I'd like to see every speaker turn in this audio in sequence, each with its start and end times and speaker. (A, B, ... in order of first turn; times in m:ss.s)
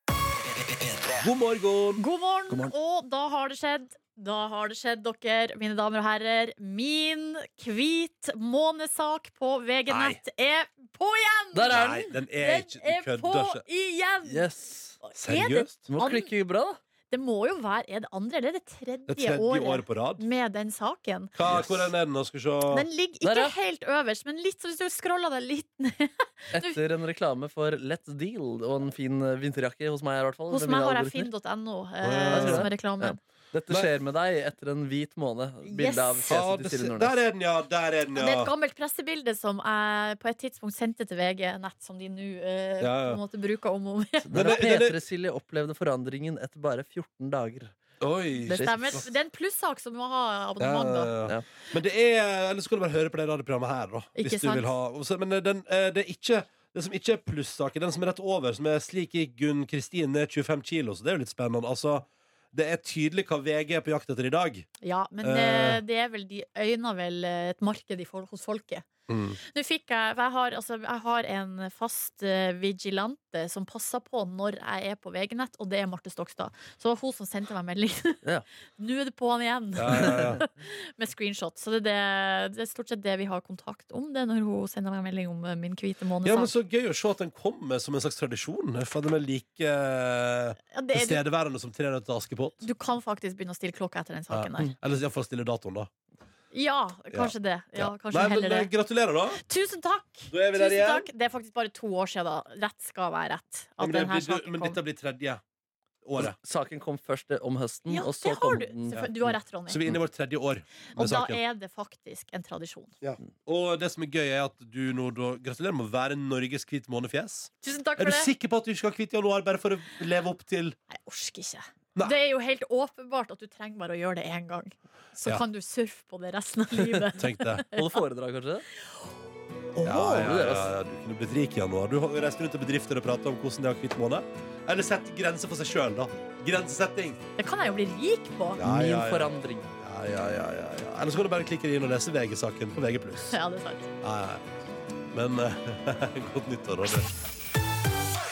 0:01.2-0:02.0 A
0:02.0-0:14.4 B
0:09.9-0:10.2 A
0:11.5-0:12.1 C
0:11.7-0:13.6 A
0:14.3-0:15.0 C
0:15.0-0:16.3 B
0:15.2-0:15.9 A
0:15.9-0:16.8 C
0:17.1-0:21.3 B
0:19.1-0:20.2 A
0:21.4-0:22.9 A
0:22.7-0:26.8 B
0:23.2-0:23.5 C
0:26.5-0:31.3 C
0:30.5-0:33.2 B
0:32.0-0:32.7 A
0:32.3-0:37.2 C
0:35.6-0:36.3 B
0:36.3-0:38.5 A
0:38.2-0:44.3 B
0:42.8-0:43.2 A
0:44.2-0:47.7 C
0:44.3-0:45.0 A
0:48.0-0:49.1 A
0:48.5-0:49.0 C
0:48.5-0:51.1 B
0:50.6-1:04.7 A
0:54.2-0:54.7 B
1:04.8-1:08.9 B
1:05.2-1:05.8 A
1:09.1-1:09.4 A
1:09.4-1:18.2 B
1:18.8-1:26.5 B
1:19.8-1:20.4 A
1:26.2-1:32.6 A
1:30.7-1:31.2 B
1:32.6-1:34.7 B
1:34.3-1:35.9 A
1:36.5-1:38.7 B
1:37.1-1:39.4 A
1:39.4-1:44.8 B
1:40.3-1:41.1 A
1:43.8-1:45.4 A
1:46.0-1:46.4 A
1:46.2-1:49.0 C
1:47.9-1:49.8 B
1:49.7-1:51.4 A
1:50.9-1:53.0 B
1:53.0-2:00.8 A
1:57.6-1:58.3 B
2:00.9-2:08.0 B
2:07.2-2:07.6 A
2:07.7-2:08.6 C
2:09.8-2:17.2 A
2:09.8-2:10.7 C
2:17.4-2:18.6 B
2:18.6-2:23.4 A
2:18.6-2:19.7 C
2:23.3-2:23.9 B
2:24.0-2:24.4 A
2:25.1-2:27.1 A